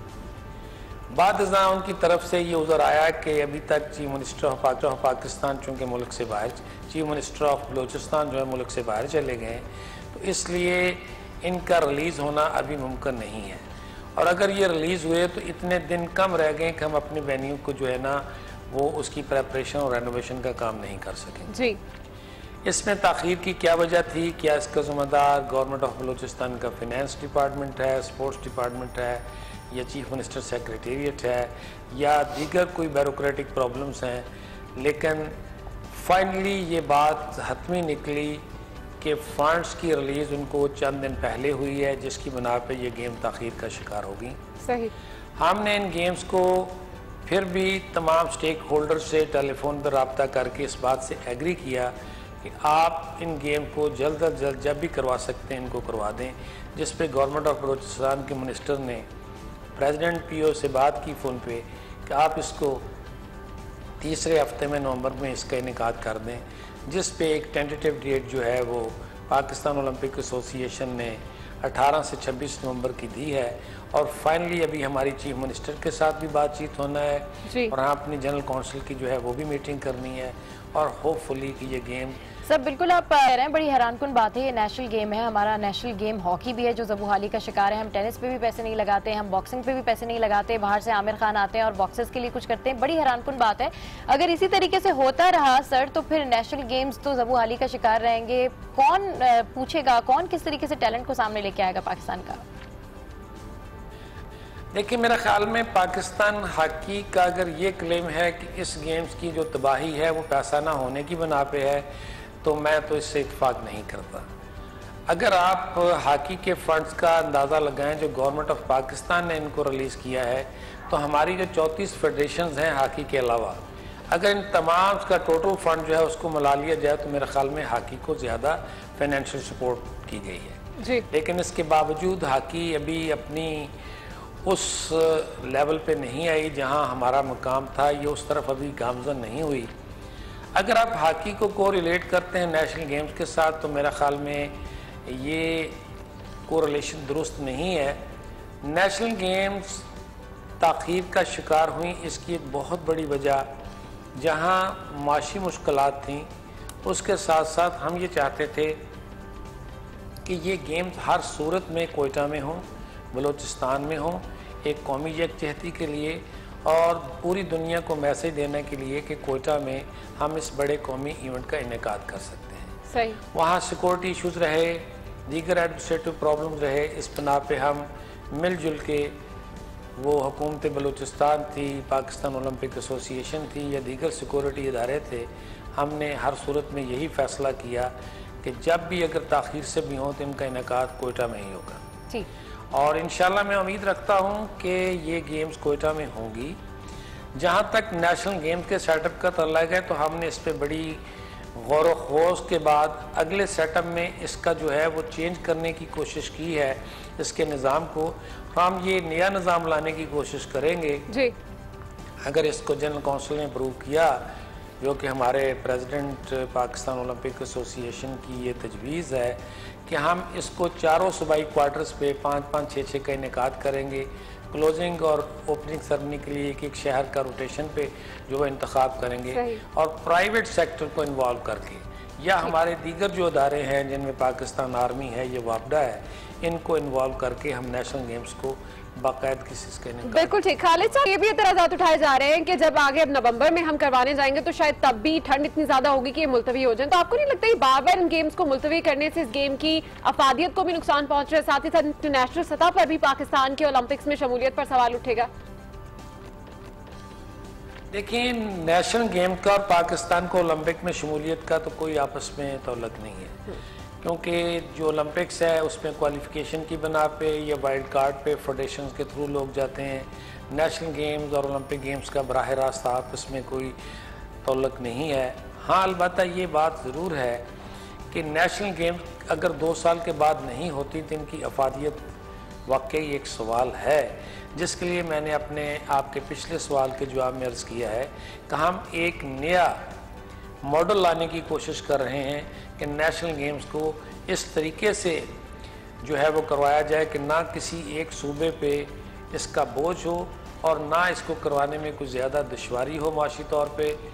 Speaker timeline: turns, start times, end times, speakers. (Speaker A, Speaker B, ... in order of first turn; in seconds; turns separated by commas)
Speaker A: 1.1-13.6, Speaker A: 14.2-21.5, Speaker B: 21.5-21.8, Speaker A: 22.6-35.4, Speaker A: 35.9-38.4, Speaker A: 39.0-44.4, Speaker B: 44.6-44.9, Speaker A: 45.4-59.0, Speaker A: 59.8-62.9, Speaker A: 64.0-82.2, Speaker B: 77.4-77.8, Speaker C: 82.5-102.4, Speaker A: 104.7-111.9, Speaker A: 112.4-114.3, Speaker A: 115.1-130.6, Speaker B: 130.8-131.1, Speaker A: 131.1-133.7, Speaker A: 134.4-139.7, Speaker A: 140.5-145.8, Speaker A: 146.5-148.0, Speaker A: 148.6-149.8, Speaker A: 150.6-153.4, Speaker A: 154.1-156.3, Speaker A: 156.8-158.8, Speaker A: 160.2-172.7, Speaker B: 172.9-173.2, Speaker A: 173.3-179.2, Speaker A: 180.0-191.8, Speaker A: 192.7-196.6, Speaker A: 197.3-201.0, Speaker A: 201.5-211.1, Speaker B: 211.1-211.3, Speaker A: 212.2-214.2, Speaker A: 214.8-240.3, Speaker B: 229.3-229.6, Speaker B: 240.0-255.3, Speaker A: 257.9-263.4, Speaker A: 264.0-273.7, Speaker A: 274.4-277.4, Speaker A: 278.1-282.0, Speaker A: 282.7-289.8, Speaker A: 290.6-295.3, Speaker A: 296.0-304.0